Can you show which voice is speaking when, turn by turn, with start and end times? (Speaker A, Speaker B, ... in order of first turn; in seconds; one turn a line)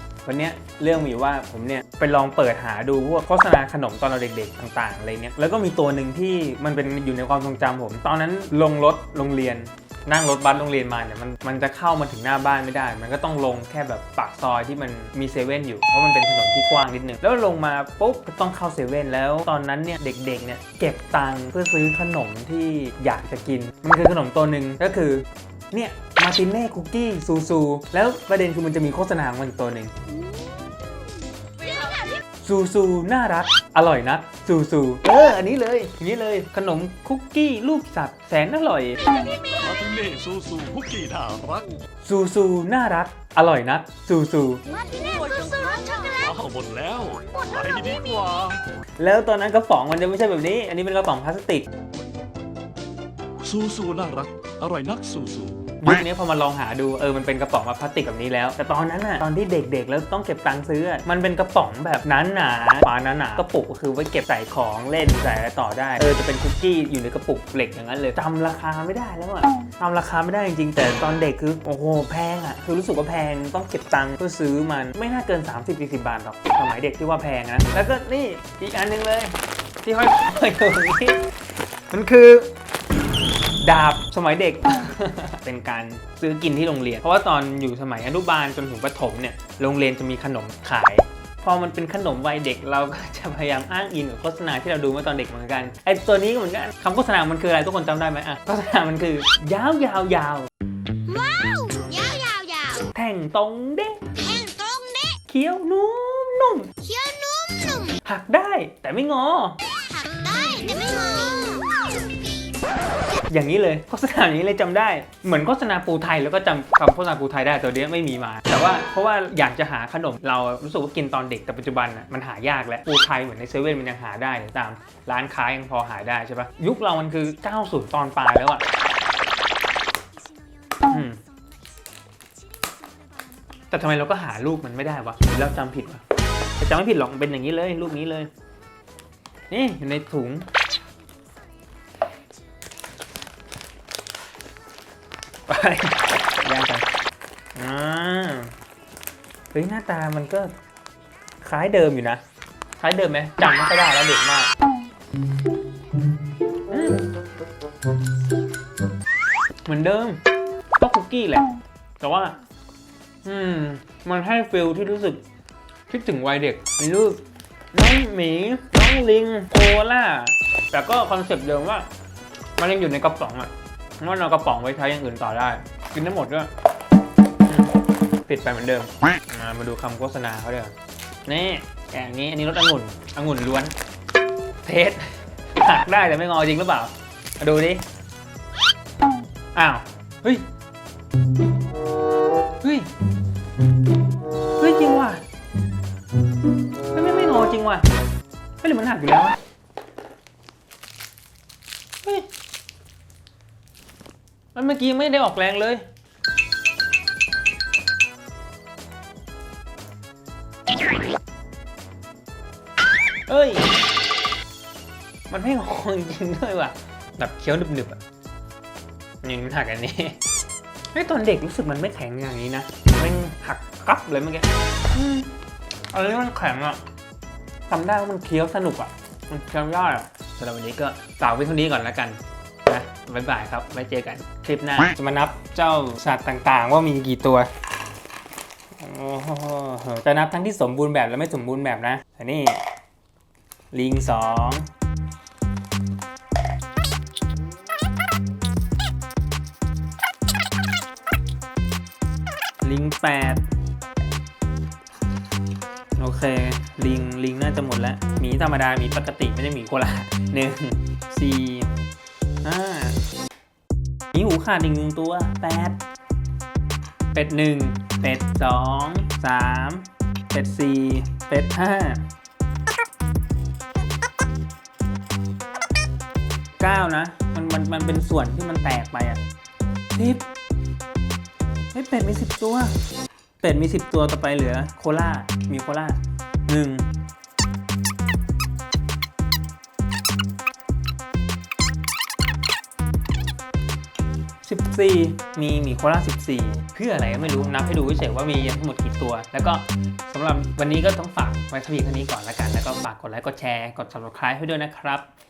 Speaker A: 0.2-29.9
Speaker A: 32.4-39.2
Speaker B: 39.4-41.7
Speaker A: 42.0-44.6
Speaker C: 44.8-46.2
Speaker B: 46.2-48.6
Speaker A: 49.0-51.7
Speaker B: 53.4-55.6
Speaker A: 55.8-81.2
Speaker A: 81.9-82.5
Speaker A: 83.6-100.5
Speaker C: 101.1-102.8
Speaker A: 102.9-104.0
Speaker C: 104.2-105.2
Speaker A: 105.3-106.7
Speaker C: 106.8-107.9
Speaker A: 108.0-109.6
Speaker C: 110.0-111.9
Speaker A: 113.3-128.6
Speaker A: 130.8-131.2
Speaker A: 133.7-136.0
Speaker A: 136.6-138.3
Speaker A: 139.5-140.5
Speaker A: 145.5-146.9
Speaker A: 147.6-148.5
Speaker A: 149.5-150.5
Speaker A: 151.4-152.2
Speaker A: 152.8-154.5
Speaker A: 156.7-157.1
Speaker A: 159.7-160.2
Speaker A: 160.8-162.4
Speaker A: 163.2-165.2
Speaker A: 165.9-171.9
Speaker A: 172.6-176.5
Speaker A: 177.5-180.8
Speaker A: 181.3-183.7
Speaker A: 184.6-187.8
Speaker A: 189.6-190.5
Speaker A: 192.6-192.9
Speaker A: 194.6-195.2
Speaker A: 196.9-197.9
Speaker A: 198.6-199.4
Speaker A: 204.6-205.8
Speaker A: 213.3-213.7
Speaker A: 215.3-218.0
Speaker A: 219.2-220.2
Speaker A: 220.9-225.3
Speaker A: 225.9-226.8
Speaker A: 227.7-237.5
Speaker A: 238.8-242.6
Speaker A: 243.7-244.7
Speaker A: 252.6-253.5
Speaker A: 256.0-261.7
Speaker A: 262.4-263.0
Speaker A: 264.1-265.8
Speaker A: 267.1-272.0
Speaker A: 276.6-279.2
Speaker A: 279.9-280.3
Speaker A: 281.7-282.7
Speaker A: 283.4-286.9
Speaker A: 294.4-305.1